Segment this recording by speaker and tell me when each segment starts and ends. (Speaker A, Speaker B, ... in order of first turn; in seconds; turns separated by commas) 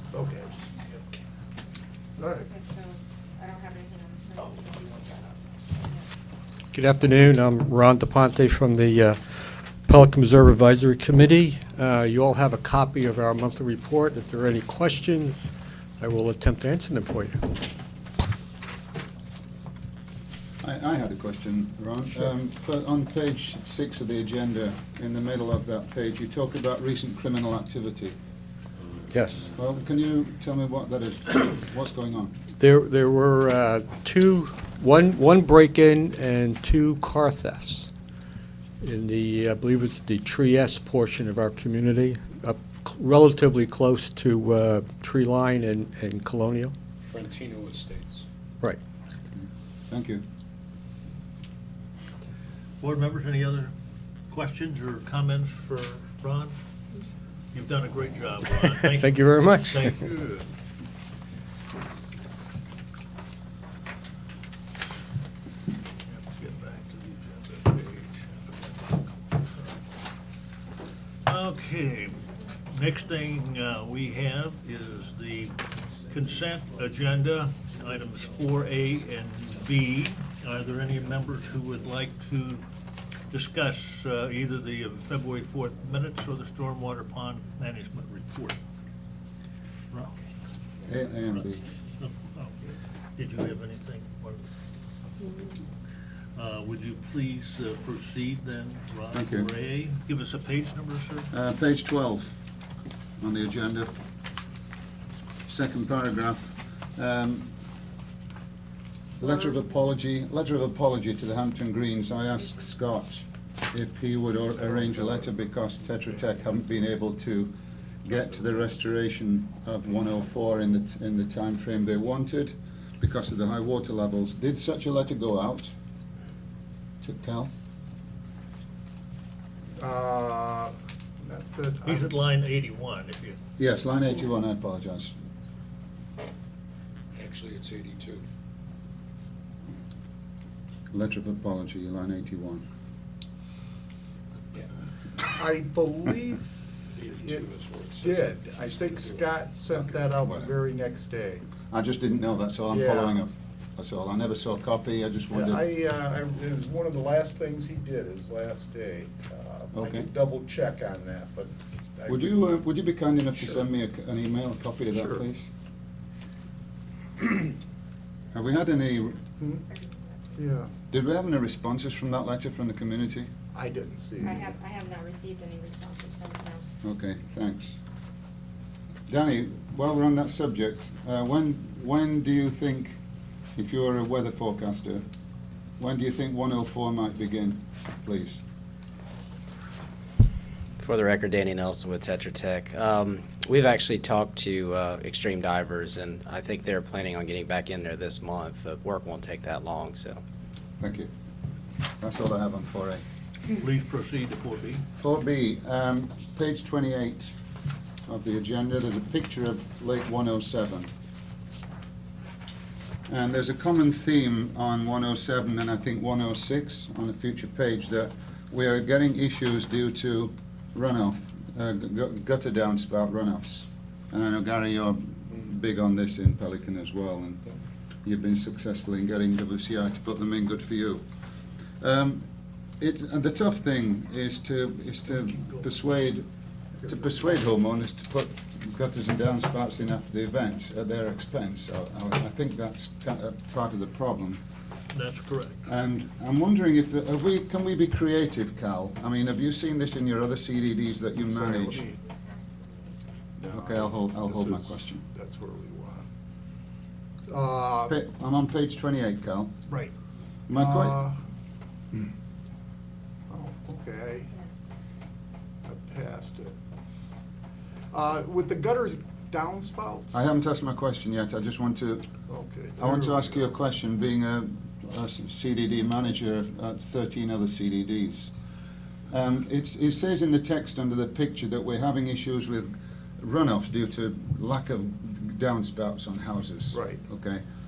Speaker A: 0.1-0.6, Speaker A: 2.2-2.5, Speaker B: 2.2-6.1, Speaker C: 6.7-17.5, Speaker D: 20.6-28.1, Speaker C: 29.1-29.5, Speaker D: 29.5-32.4, Speaker C: 32.6-37.9, Speaker C: 38.8-46.7, Speaker E: 47.0-48.3, Speaker D: 49.4-50.2, Speaker F: 52.8-53.7, Speaker F: 54.3-56.5, Speaker F: 57.5-60.4, Speaker C: 58.5-60.0, Speaker F: 66.2-69.8, Speaker F: 71.3-75.6, Speaker F: 76.1-82.6, Speaker F: 83.3-88.6, Speaker D: 90.9-91.7, Speaker F: 92.0-92.6, Speaker F: 93.2-94.4, Speaker F: 96.4-101.3, Speaker D: 99.1-99.5, Speaker D: 101.3-102.3, Speaker D: 103.2-103.9, Speaker D: 105.5-107.5, Speaker D: 109.2-125.7, Speaker D: 127.0-127.5, Speaker A: 129.8-132.2, Speaker F: 131.8-133.4, Speaker D: 133.6-135.1, Speaker E: 137.2-138.2, Speaker D: 140.9-142.7, Speaker A: 145.2-146.4, Speaker E: 146.9-149.3, Speaker A: 148.0-151.4, Speaker D: 151.7-155.7, Speaker A: 152.7-153.2, Speaker A: 155.3-162.4, Speaker D: 159.7-160.1, Speaker D: 162.1-165.5, Speaker A: 164.9-165.2, Speaker D: 168.3-169.2, Speaker B: 169.7-170.6, Speaker A: 170.4-170.7, Speaker D: 170.9-173.3, Speaker A: 173.5-174.5, Speaker B: 174.2-176.7, Speaker D: 176.8-177.8, Speaker D: 179.1-183.0, Speaker D: 183.6-185.1, Speaker D: 185.8-188.4, Speaker G: 190.8-200.2, Speaker D: 200.8-201.1, Speaker D: 202.0-203.0, Speaker F: 203.5-204.8, Speaker D: 205.0-207.3, Speaker D: 208.1-210.9, Speaker D: 213.1-227.4, Speaker D: 228.0-231.1, Speaker D: 231.8-232.3, Speaker D: 232.8-236.3, Speaker A: 236.8-237.5, Speaker D: 236.8-244.4, Speaker F: 244.9-245.6, Speaker D: 245.7-251.9, Speaker A: 251.2-252.0, Speaker B: 251.8-253.0, Speaker A: 253.4-256.1, Speaker D: 253.5-255.0, Speaker A: 257.3-258.0, Speaker D: 257.9-259.6, Speaker A: 259.7-259.9, Speaker D: 260.5-261.0, Speaker A: 260.5-261.2, Speaker A: 263.3-264.3, Speaker A: 265.6-266.6, Speaker A: 267.9-270.2, Speaker D: 270.1-272.1, Speaker A: 272.3-273.5, Speaker D: 272.8-278.3, Speaker D: 279.1-287.4, Speaker A: 286.7-287.0